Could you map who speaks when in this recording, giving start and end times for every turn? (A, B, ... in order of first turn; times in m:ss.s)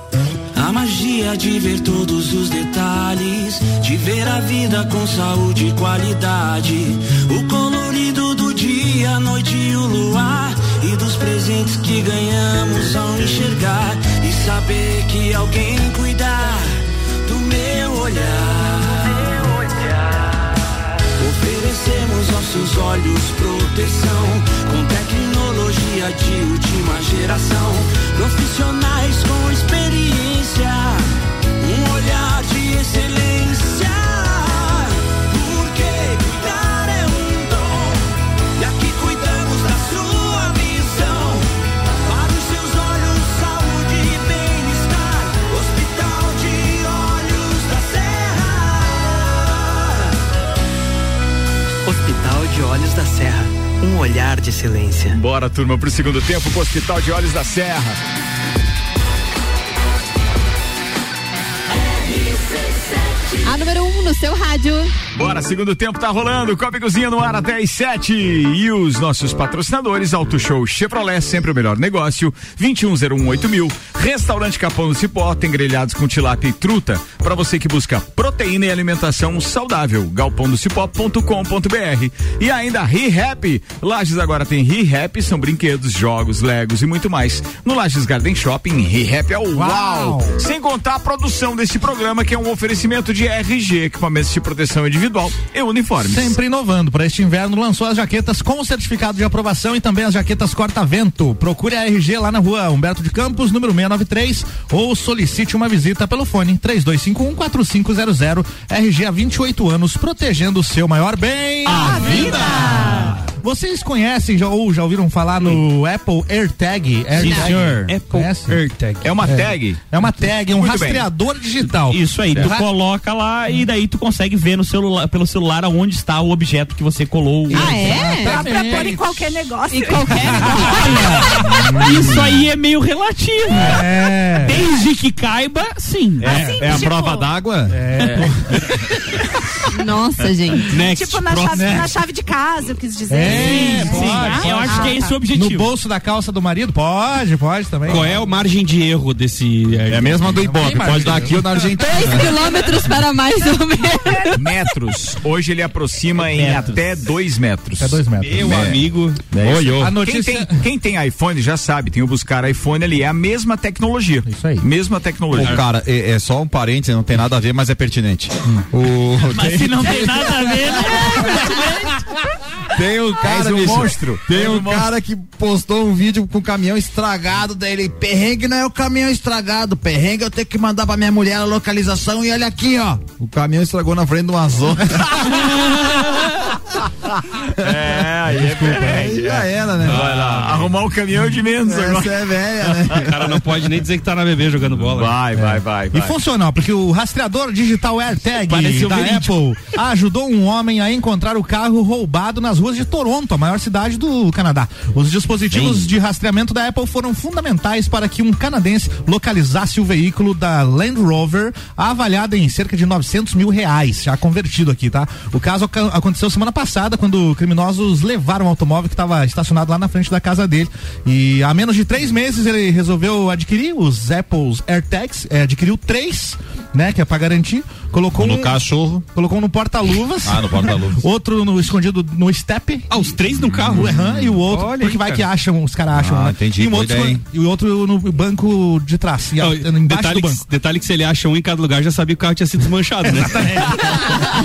0:00.6-0:20.3 A
0:21.2-0:41.5 A
0:42.0-0:50.1 A
0:51.9-0:55.1 B
0:55.1-0:58.0 C
1:03.4-1:04.9 D
1:05.1-1:36.4 C
1:29.5-1:30.4 E
1:36.0-1:58.6 E
1:51.7-1:53.1 F
1:57.2-1:58.1 G
1:57.2-1:59.2 H
1:59.0-2:01.1 C
1:59.2-2:02.6 E
2:01.9-2:07.8 G
2:07.5-2:09.0 E
2:07.5-2:08.4 D
2:07.9-2:10.7 F
2:09.7-2:10.9 D
2:10.1-2:11.3 E
2:10.6-2:16.4 G
2:13.5-2:14.6 E
2:16.2-2:18.3 I
2:16.2-2:17.3 F
2:16.3-2:16.7 E
2:17.7-2:18.7 E
2:19.7-2:20.8 D
2:20.7-2:21.8 H
2:20.8-2:25.1 F
2:21.5-2:21.9 E
2:23.1-2:28.1 E
2:23.2-2:25.7 G
2:27.9-2:31.2 H
2:29.9-2:32.3 I
2:30.3-2:31.8 E
2:31.8-2:34.5 D
2:34.4-2:38.0 C
2:36.3-2:36.8 G
2:37.8-2:38.7 E
2:38.2-2:39.2 H
2:38.4-2:38.8 I
2:39.3-2:40.0 I
2:39.4-2:45.6 C
2:39.7-2:40.6 E
2:44.2-2:44.6 E
2:45.3-2:51.4 I
2:49.3-2:51.9 G
2:52.7-3:05.5 I
2:53.2-2:54.9 C
3:07.5-3:12.9 C
3:07.6-3:07.9 I
3:08.6-3:10.2 I
3:09.8-3:10.7 H
3:11.6-3:13.2 I
3:12.9-3:15.2 H
3:14.8-3:16.2 C
3:15.4-3:52.9 E
3:18.5-3:19.3 H
3:25.6-3:25.8 I
3:48.1-3:49.1 I
3:50.2-3:51.0 I
3:52.9-3:55.2 H
3:53.4-3:54.3 I
3:53.7-4:00.4 E
3:56.0-3:57.2 I
3:59.4-4:04.3 H